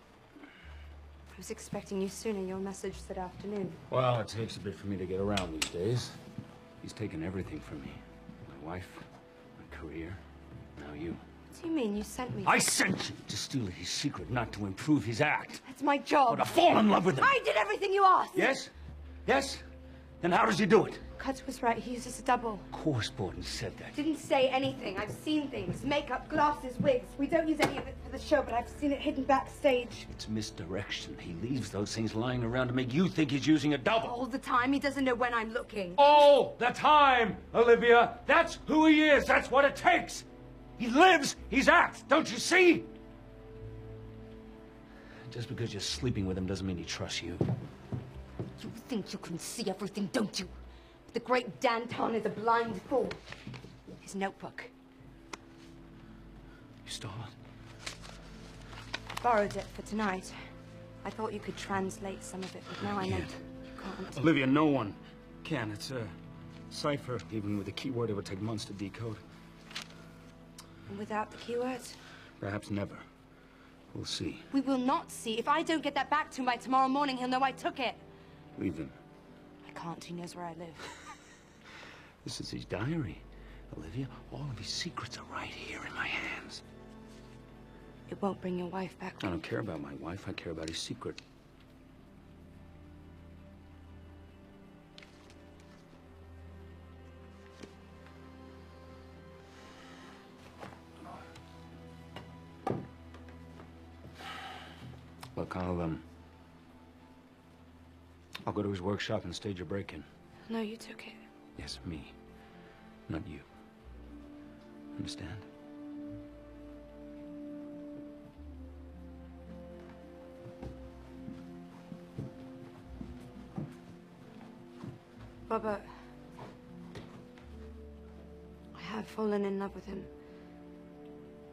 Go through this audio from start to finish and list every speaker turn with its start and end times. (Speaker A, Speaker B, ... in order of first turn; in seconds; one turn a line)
Speaker A: 1.3-3.8
Speaker B: 3.9-6.2
Speaker B: 6.8-10.2
Speaker B: 10.8-11.2
Speaker A: 11.5-12.5
Speaker B: 12.4-15.6
Speaker A: 15.6-18.5
Speaker B: 16.3-17.3
Speaker B: 18.3-18.7
Speaker B: 19.2-19.6
Speaker B: 20.2-21.0
Speaker A: 21.2-22.7
Speaker B: 22.7-24.0
Speaker A: 23.9-30.1
Speaker B: 30.1-34.1
Speaker A: 33.9-36.0
Speaker B: 36.0-40.2
Speaker B: 40.8-42.9
Speaker B: 45.3-47.4
Speaker A: 48.6-50.5
Speaker A: 51.1-53.2
Speaker A: 54.0-54.7
Speaker B: 56.8-57.3
Speaker A: 59.1-60.3
Speaker A: 61.0-64.2
Speaker B: 62.8-63.3
Speaker B: 64.1-66.1
Speaker B: 66.7-69.2
Speaker A: 70.9-72.0
Speaker B: 72.4-73.0
Speaker B: 73.9-74.5
Speaker A: 74.5-78.0
Speaker B: 78.5-78.9
Speaker A: 79.6-80.9
Speaker B: 82.2-86.6
Speaker A: 88.1-89.3
Speaker B: 89.2-91.2
Speaker B: 105.3-106.0
Speaker B: 108.4-110.0
Speaker A: 110.5-111.2
Speaker B: 111.6-112.1
Speaker B: 113.1-113.4
Speaker B: 114.9-115.5
Speaker A: 125.5-125.9
Speaker A: 128.7-130.1